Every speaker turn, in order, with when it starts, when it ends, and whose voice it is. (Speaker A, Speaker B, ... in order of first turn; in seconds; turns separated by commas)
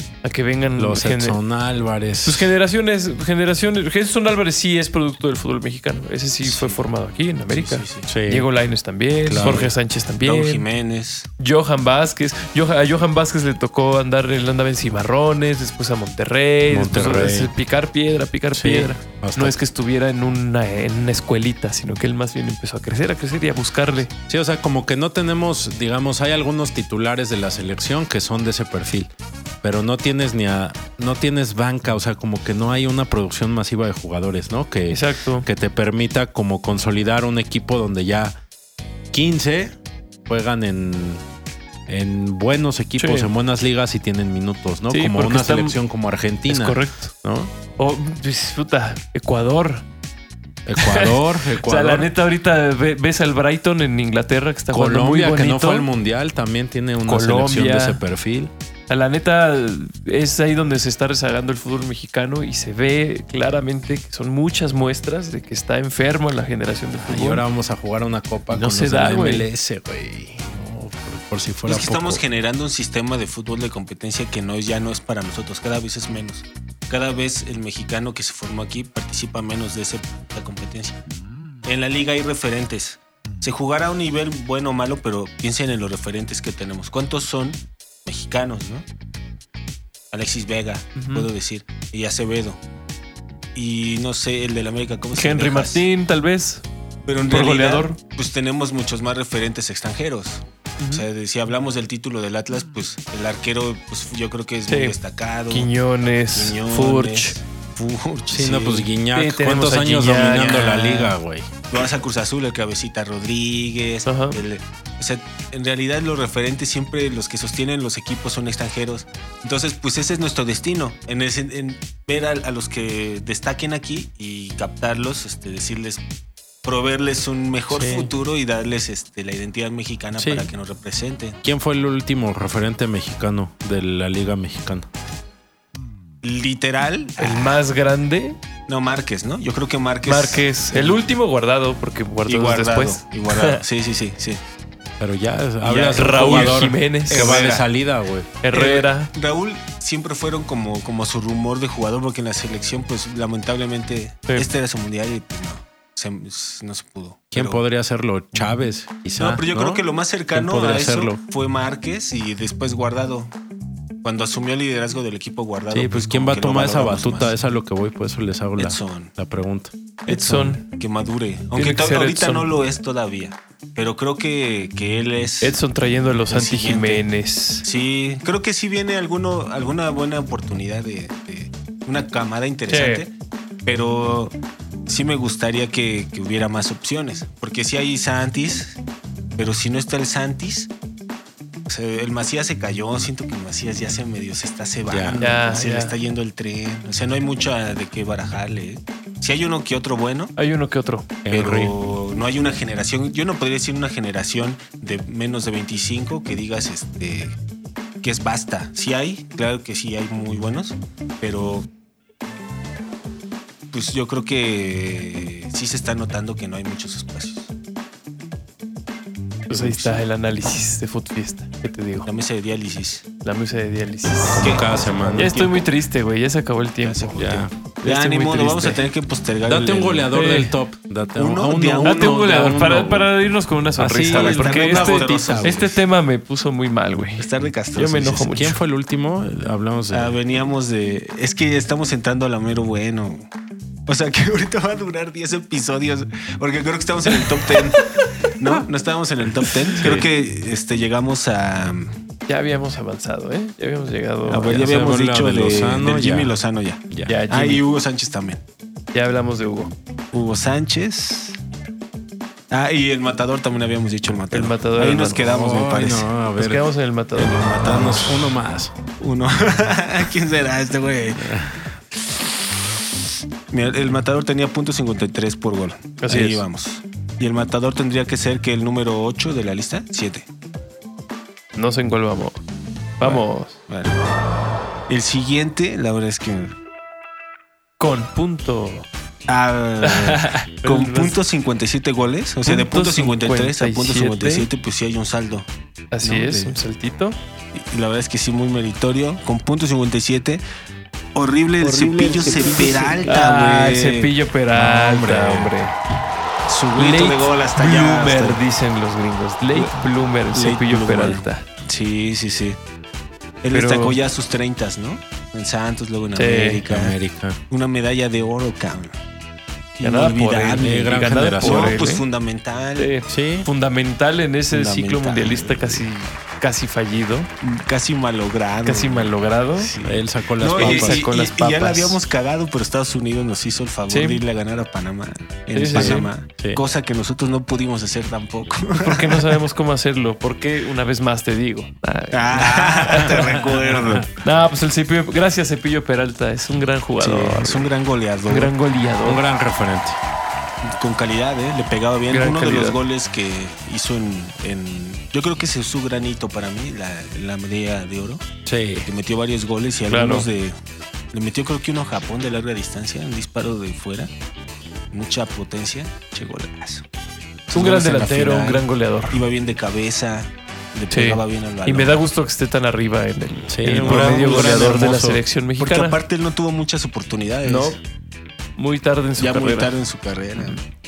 Speaker A: 0.2-1.4, Speaker B: 0.8-2.5, Speaker A: 2.2-10.6, Speaker C: 6.4-6.8, Speaker C: 7.5-8.1, Speaker B: 8.1-8.5, Speaker B: 9.2-9.7, Speaker C: 9.3-9.7, Speaker C: 10.2-11.3, Speaker A: 11.4-24.1, Speaker B: 16.7-17.5, Speaker B: 18.5-19.6, Speaker B: 24.3-29.1, Speaker B: 29.6-38.4, Speaker A: 34.9-35.5, Speaker B: 39.1-41.2, Speaker B: 41.9-47.5, Speaker A: 43.0-43.3, Speaker A: 44.9-45.8, Speaker A: 46.5-47.1, Speaker A: 47.8-49.9, Speaker B: 50.6-52.1, Speaker A: 50.8-55.9, Speaker B: 54.7-58.5, Speaker A: 57.0-58.0, Speaker A: 58.9-67.4, Speaker B: 67.0-72.2, Speaker A: 68.5-69.5, Speaker C: 71.6-81.0, Speaker C: 81.6-88.8, Speaker C: 90.1-92.6, Speaker A: 91.0-91.3, Speaker C: 93.5-95.8, Speaker A: 95.1-96.6, Speaker C: 97.1-105.7, Speaker A: 97.3-98.0, Speaker A: 100.8-101.0, Speaker A: 104.7-105.0, Speaker A: 105.5-107.4, Speaker C: 106.3-108.9, Speaker B: 108.3-111.5, Speaker A: 109.1-111.1, Speaker C: 111.7-126.0, Speaker A: 114.1-114.4, Speaker C: 126.6-131.4, Speaker B: 127.7-128.1, Speaker B: 130.2-130.5, Speaker B: 131.4-134.9, Speaker C: 136.2-137.6, Speaker A: 137.2-138.4, Speaker C: 138.7-141.0, Speaker A: 140.1-143.6, Speaker C: 142.2-144.4, Speaker B: 145.0-148.3, Speaker C: 145.6-147.7, Speaker A: 145.9-147.3, Speaker A: 148.4-149.1, Speaker C: 148.5-157.6, Speaker B: 157.3-161.2, Speaker C: 159.2-163.3, Speaker C: 164.0-167.3, Speaker B: 165.7-169.7, Speaker C: 168.6-169.1, Speaker C: 170.0-175.6, Speaker A: 170.1-170.6, Speaker A: 171.6-172.5, Speaker A: 175.4-177.6, Speaker C: 176.3-177.1, Speaker C: 177.6-183.1, Speaker A: 182.7-183.1, Speaker C: 183.6-184.3, Speaker C: 184.9-188.8, Speaker C: 189.3-190.7, Speaker C: 191.7-200.3, Speaker B: 194.9-195.2, Speaker A: 195.2-195.9, Speaker A: 200.3-201.1, Speaker B: 201.2-201.8, Speaker C: 201.3-207.3, Speaker C: 208.0-211.7, Speaker C: 213.7-217.5, Speaker A: 219.5-222.1, Speaker C: 219.5-220.0, Speaker C: 222.1-223.1, Speaker A: 223.2-227.3, Speaker B: 224.3-225.3, Speaker C: 224.4-225.7, Speaker C: 226.8-230.1, Speaker B: 227.2-227.5, Speaker A: 227.8-228.8, Speaker B: 229.4-233.1, Speaker A: 230.1-230.5, Speaker C: 231.1-232.3, Speaker A: 231.8-238.6, Speaker B: 233.8-235.6, Speaker C: 234.1-235.8, Speaker C: 237.2-238.4, Speaker B: 238.3-240.1, Speaker C: 239.9-243.3, Speaker C: 243.9-251.9, Speaker B: 249.8-250.1, Speaker A: 252.3-254.6, Speaker C: 254.3-258.4, Speaker B: 254.4-256.3, Speaker B: 256.9-257.1, Speaker A: 257.1-257.6, Speaker A: 258.9-259.7, Speaker C: 260.1-261.4, Speaker C: 262.5-266.1, Speaker A: 264.3-265.2, Speaker B: 265.2-266.7, Speaker A: 266.4-267.4, Speaker C: 267.1-268.4, Speaker B: 267.6-268.7, Speaker C: 269.0-271.5, Speaker B: 271.2-271.5, Speaker C: 273.5-280.2, Speaker A: 276.0-276.4, Speaker A: 281.5-282.4, Speaker A: 283.0-283.6, Speaker C: 283.0-284.0, Speaker C: 284.9-286.5, Speaker A: 287.8-288.9, Speaker C: 289.3-295.5, Speaker A: 289.8-291.2, Speaker A: 292.4-294.5, Speaker A: 295.9-297.2, Speaker C: 296.0-296.6, Speaker C: 297.5-300.4, Speaker C: 301.1-304.1, Speaker A: 301.6-305.8, Speaker B: 302.6-303.0, Speaker B: 304.5-305.5, Speaker C: 306.5-308.4, Speaker A: 306.7-311.4, Speaker C: 309.5-309.8, Speaker C: 310.3-312.6, Speaker C: 313.4-316.9, Speaker A: 313.5-314.0, Speaker A: 316.1-316.6, Speaker B: 316.7-317.4, Speaker C: 317.5-318.9, Speaker C: 319.8-322.9, Speaker A: 319.8-322.0, Speaker B: 320.6-321.8, Speaker A: 322.8-327.3, Speaker B: 323.1-323.5, Speaker C: 324.5-325.8, Speaker C: 327.4-339.4, Speaker A: 328.6-329.7, Speaker B: 329.8-331.1, Speaker A: 330.5-332.0, Speaker A: 333.9-334.2, Speaker A: 335.5-336.1, Speaker B: 335.7-336.6, Speaker A: 338.7-347.7, Speaker C: 342.1-344.1, Speaker B: 343.0-343.4, Speaker C: 347.0-348.5, Speaker A: 348.3-349.2, Speaker B: 349.0-350.0, Speaker C: 350.6-358.2, Speaker A: 352.1-352.8, Speaker B: 358.4-358.9, Speaker C: 358.9-360.5, Speaker A: 359.9-360.3, Speaker C: 361.1-364.1, Speaker C: 364.9-366.8, Speaker A: 367.5-369.2, Speaker C: 367.5-372.0, Speaker A: 370.9-376.0, Speaker B: 373.5-375.2, Speaker C: 373.8-374.5, Speaker C: 375.6-377.8, Speaker A: 377.4-377.8, Speaker A: 378.6-379.7, Speaker C: 379.2-380.6